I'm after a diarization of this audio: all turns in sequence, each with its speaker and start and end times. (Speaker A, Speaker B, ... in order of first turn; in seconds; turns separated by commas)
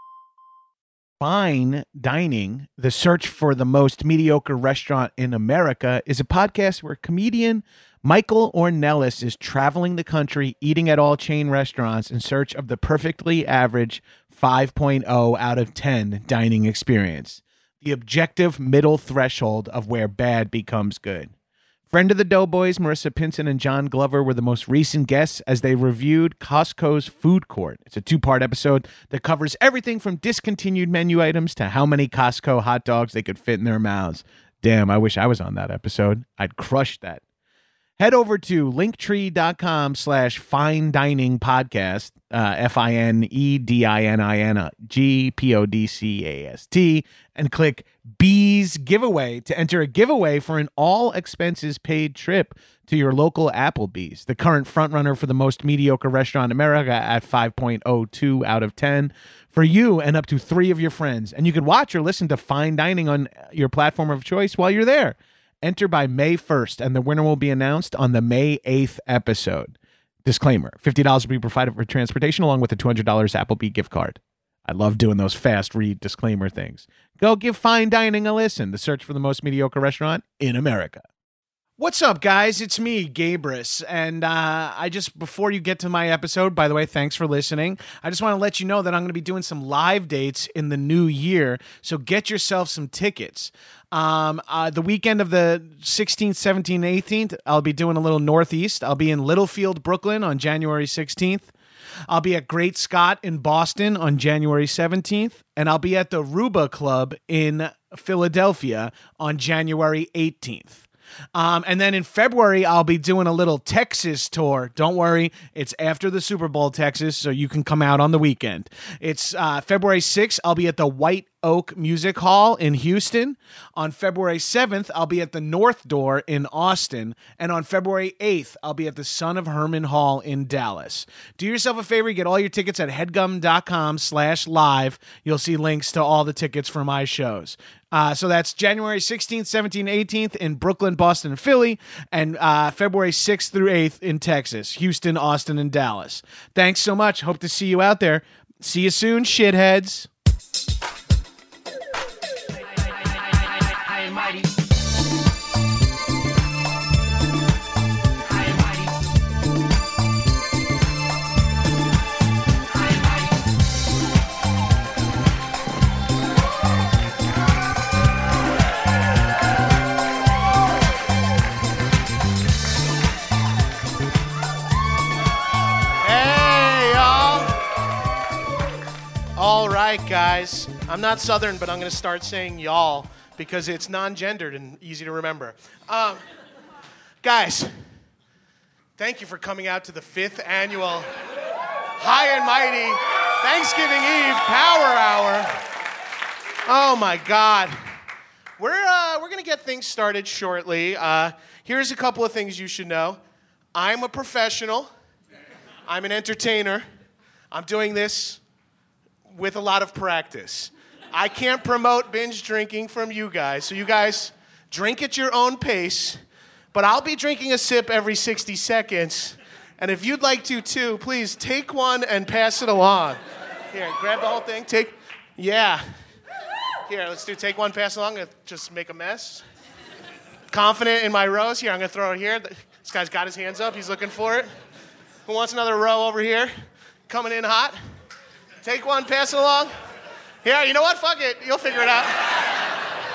Speaker A: 1.2-21.3, Speaker A: 21.9-37.2, Speaker A: 38.0-69.7, Speaker A: 70.3-81.0, Speaker A: 81.8-101.5, Speaker A: 102.1-150.1, Speaker A: 176.0-177.6, Speaker A: 179.3-186.2, Speaker A: 187.2-187.7, Speaker A: 189.0-191.1, Speaker A: 192.0-195.5, Speaker A: 196.7-197.7, Speaker A: 198.6-203.2, Speaker A: 203.7-204.9, Speaker A: 205.9-206.8, Speaker A: 207.5-208.4, Speaker A: 209.2-216.2, Speaker A: 216.7-223.2, Speaker A: 223.7-225.8, Speaker A: 226.9-229.4, Speaker A: 230.5-234.5, Speaker A: 235.3-236.5, Speaker A: 237.1-237.8, Speaker A: 238.6-239.7, Speaker A: 240.4-242.5